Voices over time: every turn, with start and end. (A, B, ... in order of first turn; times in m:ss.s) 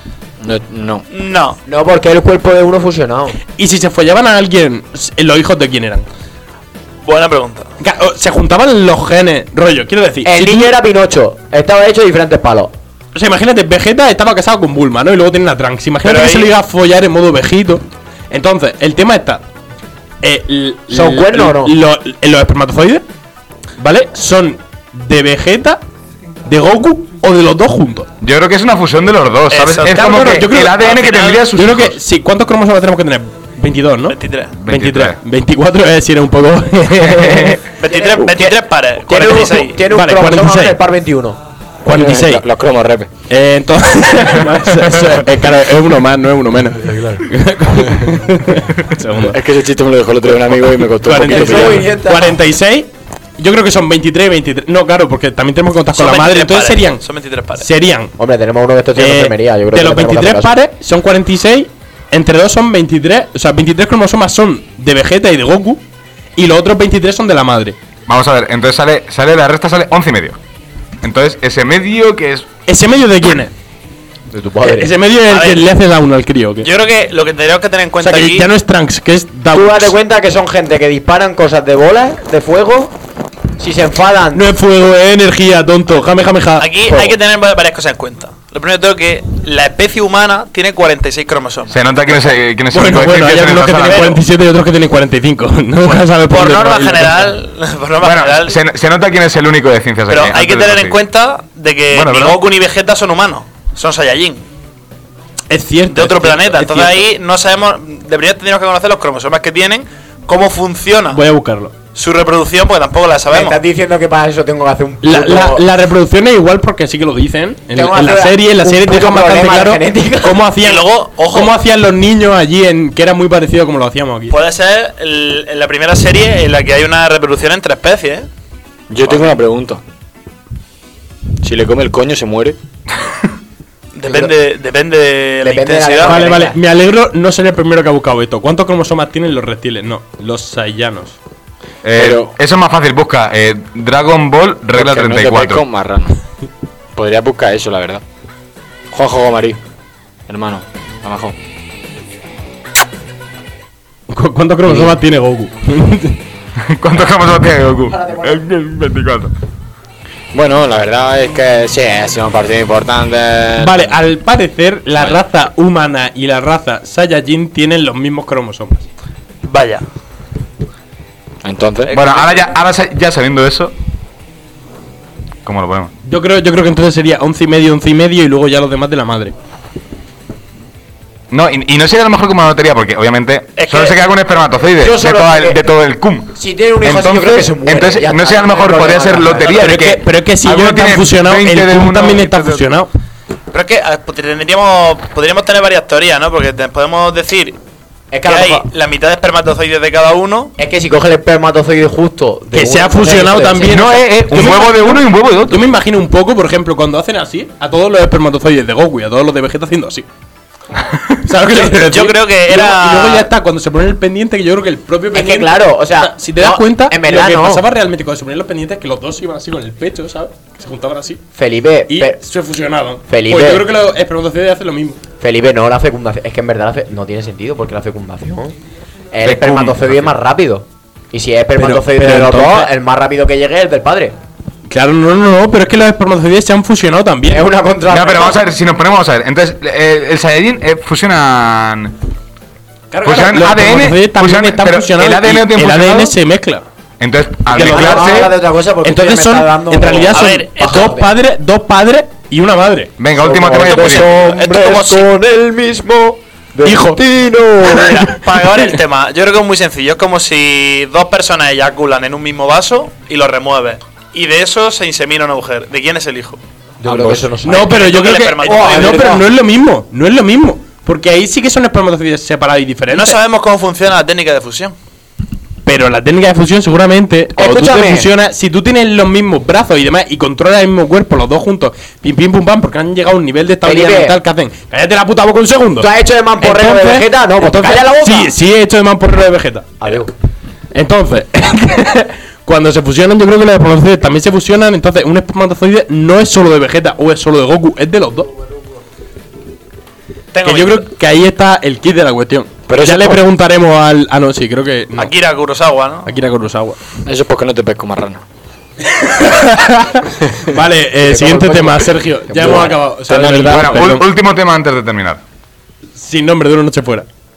0:00.4-0:01.1 A
0:01.1-0:01.6 B
0:01.7-0:03.4 C
0:03.6-0:06.0 D
0:07.0-0:07.7 B
0:07.8-0:10.7 D
0:10.2-0:12.7 C
0:13.2-0:19.4 D
0:16.0-0:16.5 B
0:20.2-0:23.0 D
0:20.9-0:21.8 C
0:23.8-0:25.8 D
0:26.5-0:28.1 D
0:28.2-0:32.0 E
0:29.5-0:31.5 B
0:30.0-0:30.7 D
0:31.5-0:37.6 D
0:34.1-0:34.5 B
0:34.6-0:35.2 E
0:37.1-0:37.5 E
0:37.7-0:39.8 B
0:37.8-0:41.4 C
0:39.9-0:40.8 D
0:41.8-0:42.4 D
0:41.9-0:43.1 A
0:43.3-0:49.4 D
0:49.2-0:51.9 A
0:51.0-0:57.0 D
0:51.2-0:52.4 C
0:55.9-0:57.7 B
0:57.6-0:58.1 D
0:58.2-1:00.6 C
0:59.0-1:05.8 D
1:06.4-1:07.8 D
1:08.1-1:10.4 E
1:11.0-1:12.5 E
1:12.7-1:13.5 D
1:14.3-1:14.9 C
1:14.6-1:16.7 D
1:15.2-1:15.7 B
1:16.6-1:18.5 B
1:18.0-1:19.9 D
1:19.5-1:22.9 C
1:23.6-1:24.5 C
1:24.3-1:26.7 D
1:26.6-1:31.7 B
1:31.7-1:34.2 E
1:32.7-1:37.3 D
1:33.8-1:34.2 B
1:36.2-1:38.6 B
1:38.0-1:41.0 E
1:40.1-1:44.4 B
1:41.9-1:42.4 E
1:45.5-1:47.0 D
1:45.9-1:51.2 B
1:51.1-1:51.7 D
1:52.0-1:53.6 B
1:53.3-1:55.7 C
1:55.0-2:04.4 D
1:57.7-2:00.4 C
2:00.6-2:01.6 B
2:04.3-2:08.3 B
2:08.9-2:09.8 A
2:11.4-2:12.6 A
2:13.9-2:16.3 B
2:14.0-2:14.3 C
2:15.4-2:16.6 C
2:16.0-2:21.2 D
2:21.8-2:25.6 E
2:21.9-2:22.3 A
2:24.7-2:26.2 A
2:27.0-2:28.0 A
2:28.9-2:29.6 A
2:30.3-2:31.4 A
2:34.1-2:36.2 D
2:34.7-2:35.0 A
2:36.6-2:39.3 E
2:37.9-2:38.5 C
2:40.3-2:44.0 A
2:43.6-2:48.9 D
2:49.4-2:49.8 B
2:51.4-2:52.0 A
2:51.9-2:52.5 B
2:51.9-2:53.7 E
2:55.4-2:55.9 E
2:56.0-2:59.3 D
3:01.3-3:12.7 E
3:03.6-3:04.0 B
3:04.8-3:05.6 C
3:06.4-3:09.8 C
3:09.5-3:12.9 D
3:13.5-3:17.6 B
3:18.1-3:18.7 C
3:18.2-3:20.5 B
3:20.6-3:24.1 C
3:22.5-3:30.1 D
3:23.7-3:25.7 E
3:31.2-3:41.2 D
3:31.5-3:33.3 B
3:35.1-3:37.7 C
3:41.4-3:42.2 C
3:41.9-3:45.0 D
3:43.1-3:43.7 C
3:45.2-3:48.6 C
3:49.1-3:54.2 C
3:49.2-3:50.1 E
3:51.6-3:52.7 D
3:54.7-3:57.5 D
3:57.3-3:58.4 C
3:57.9-4:02.0 E
4:02.9-4:06.6 D
4:03.0-4:06.2 E
4:07.0-4:08.3 E
4:07.5-4:08.3 D
4:07.6-4:11.1 C
4:08.8-4:12.9 D
4:10.1-4:10.9 B
4:13.0-4:14.2 E
4:13.2-4:18.1 C
4:13.7-4:15.1 B
4:16.6-4:17.0 D
4:17.7-4:26.4 B
4:18.1-4:18.8 D
4:26.8-4:29.3 C
4:26.9-4:27.3 A
4:27.4-4:33.2 D
4:27.5-4:29.1 B
4:32.9-4:34.8 B
4:35.6-4:49.9 D
4:37.4-4:38.1 C
4:43.6-4:44.2 C
4:45.8-4:48.4 C
4:49.8-4:50.1 C
4:50.8-4:58.3 D
5:00.3-5:00.9 B
5:00.4-5:05.1 D
5:02.7-5:03.2 A
5:04.9-5:06.1 B
5:06.0-5:06.8 D
5:07.1-5:08.2 A
5:08.8-5:14.1 D
5:11.0-5:12.7 C
5:12.4-5:14.0 A
5:13.5-5:15.2 E
5:16.0-5:17.1 D